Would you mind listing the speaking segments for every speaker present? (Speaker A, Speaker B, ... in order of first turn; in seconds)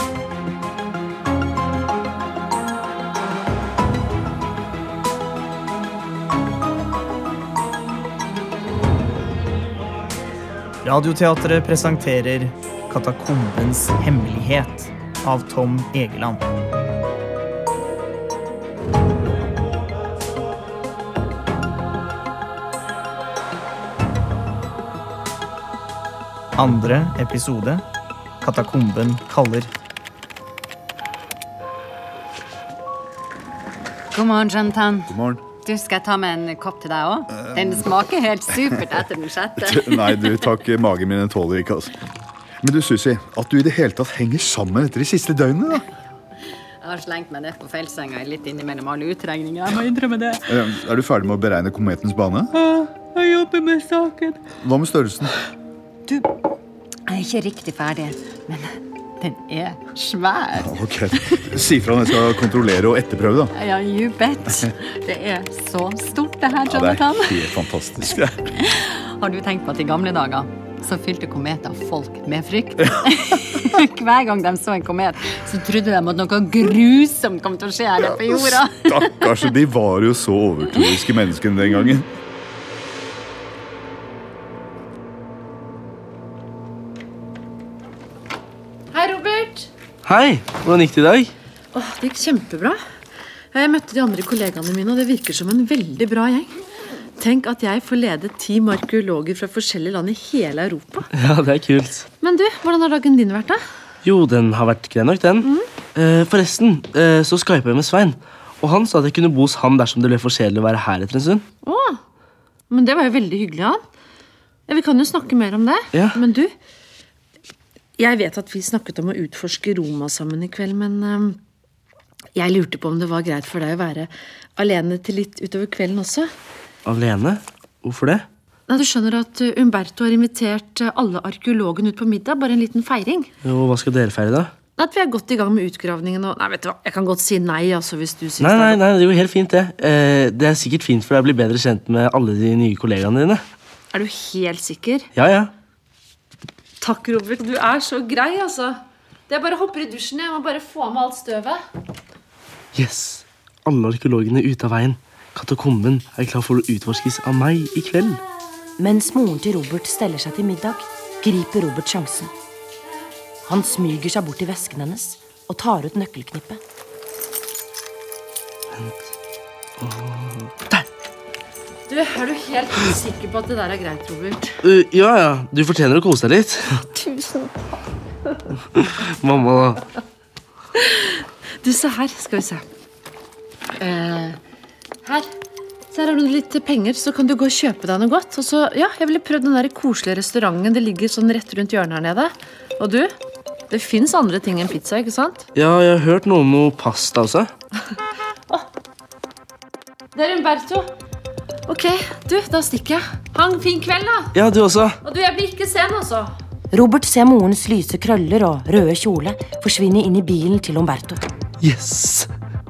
Speaker A: 10.8-16.4, 26.6-27.8, 28.4-29.7
Speaker B: 34.1-40.6, 46.8-50.7, 52.6-54.4, 57.1-62.5, 63.5-79.6, 80.6-81.2
Speaker C: 35.1-35.4, 39.6-41.9, 42.6-45.8, 50.5-52.5, 54.6-55.3, 60.6-63.5, 66.7-68.4, 78.7-82.1
Speaker D: 88.9-89.7, 91.7-92.8, 93.5-96.5, 97.2-101.1, 102.2-103.6, 111.6-112.0, 112.7-113.8, 114.7-116.5, 118.0-121.4, 122.4-126.3, 128.7-133.3, 134.8-138.8, 143.9-145.1, 146.8-151.6, 171.9-174.5, 177.2-177.5, 181.6-182.6, 183.8-184.4, 185.9-193.1, 193.7-195.4, 200.2-200.9, 201.7-204.3, 205.1-206.3
Speaker E: 90.0-91.3, 101.2-102.1, 104.0-111.5, 126.8-128.3, 133.4-134.5, 138.4-143.4, 145.2-145.5, 152.7-158.2, 168.7-169.1, 169.8-170.8, 174.6-176.8, 178.8-179.8, 195.6-197.5, 204.3-205.0, 211.6-212.3
Speaker F: 158.8-162.3, 163.5-166.6, 206.7-211.2